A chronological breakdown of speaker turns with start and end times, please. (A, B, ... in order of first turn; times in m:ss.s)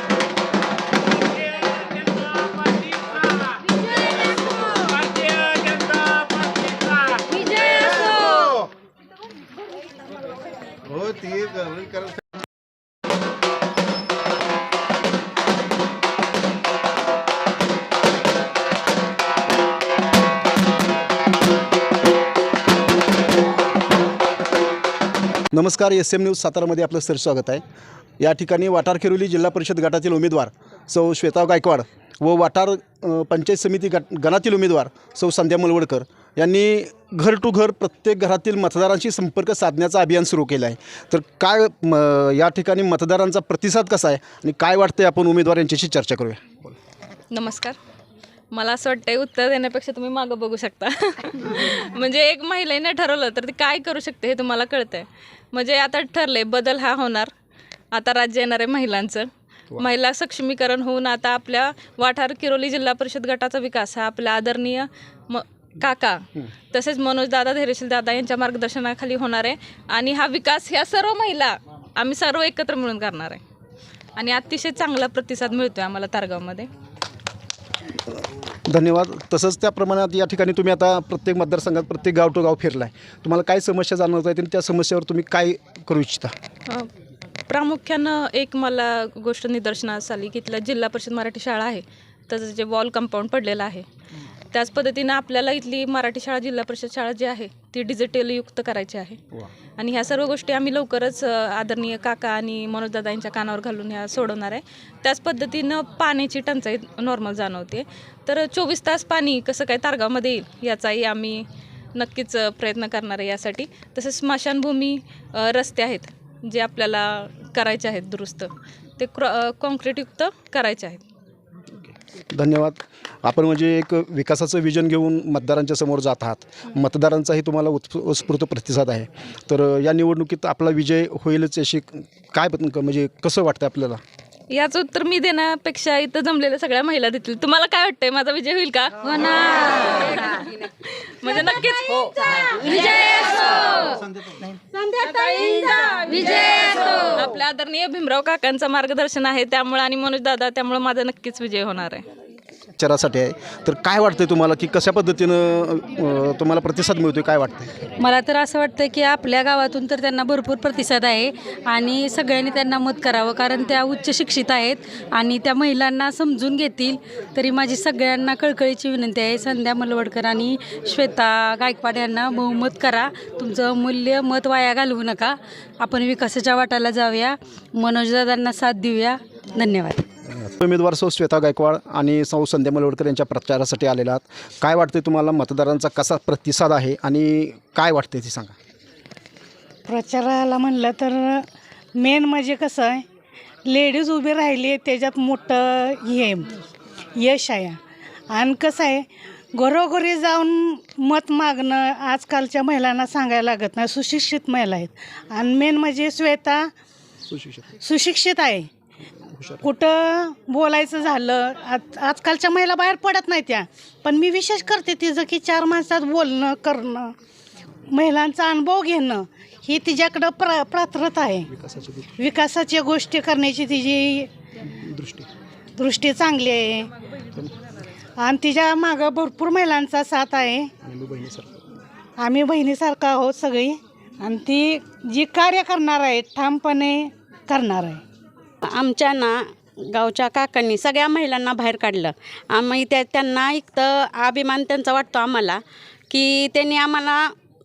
0:07.7-0:08.3 A
0:25.5-0:27.6 B
0:28.2-0:46.7 B
0:47.3-0:47.8 A
0:48.5-0:57.3 A
0:57.9-1:13.4 A
1:14.2-1:16.7 A
1:18.7-1:26.3 B
1:27.5-1:33.8 A
1:34.5-1:39.2 A
1:39.8-2:01.0 A
2:02.3-2:14.0 B
2:14.5-2:24.1 A
2:24.8-2:32.0 A
2:32.8-2:37.8 B
2:38.0-3:00.1 C
3:00.2-3:08.5 B
3:09.9-3:13.0 D
3:13.6-3:16.5 D
3:17.2-3:17.8 D
3:18.3-3:26.7 D
3:27.3-3:27.7 B
3:27.8-3:28.7 D
3:29.3-3:29.6 B
3:29.6-3:37.1 D
3:37.9-3:41.4 D
3:41.5-3:42.2 B
3:42.2-3:44.3 D
3:44.6-3:45.3 B
3:45.8-3:46.9 D
3:48.2-3:50.7 D
3:50.9-3:51.6 B
3:52.2-3:58.0 D
3:58.6-4:07.3 E